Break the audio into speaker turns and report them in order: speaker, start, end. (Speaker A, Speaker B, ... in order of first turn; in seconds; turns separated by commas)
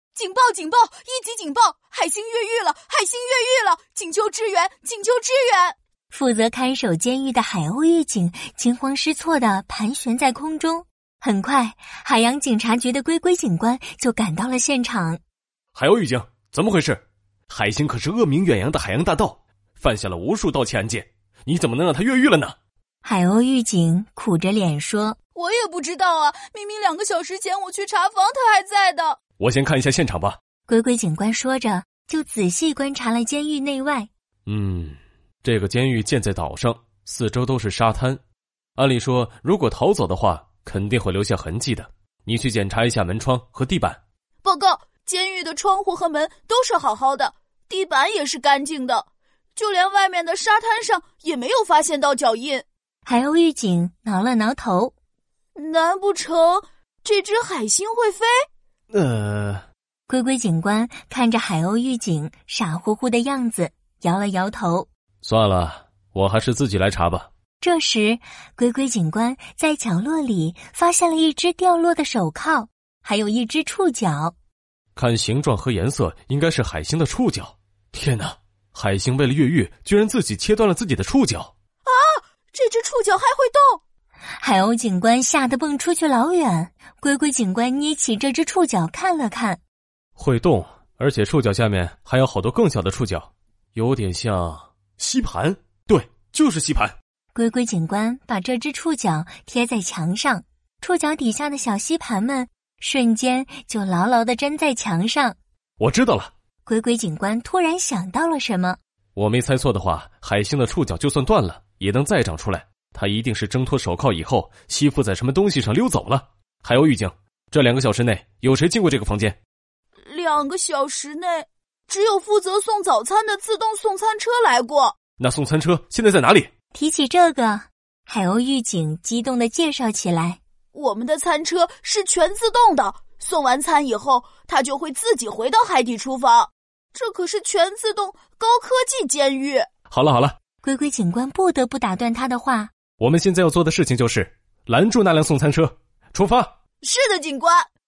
Speaker A: 0.1-5.8, Speaker B: 6.1-15.2, Speaker C: 15.8-22.6, Speaker B: 23.0-25.2, Speaker A: 25.4-29.2, Speaker C: 29.4-30.4, Speaker B: 30.7-34.1, Speaker C: 34.5-38.2, Speaker C: 38.8-44.0, Speaker A: 44.4-52.6, Speaker B: 53.1-54.9, Speaker A: 55.6-58.3, Speaker C: 58.9-59.6, Speaker B: 60.1-64.9, Speaker C: 65.2-67.3, Speaker B: 67.6-74.3, Speaker C: 75.0-81.5, Speaker A: 81.9-83.8, Speaker B: 84.4-89.6, Speaker C: 90.2-97.0, Speaker B: 97.3-105.4, Speaker C: 105.8-106.3, Speaker B: 106.7-108.8, Speaker C: 109.2-119.4, Speaker A: 120.1-125.0, Speaker C: 125.2-126.5, Speaker B: 126.7-130.4, Speaker A: 130.7-139.7, Speaker C: 139.9-140.3, Speaker B: 140.6-142.7, Speaker C: 143.0-146.5, Speaker A: 146.8-147.7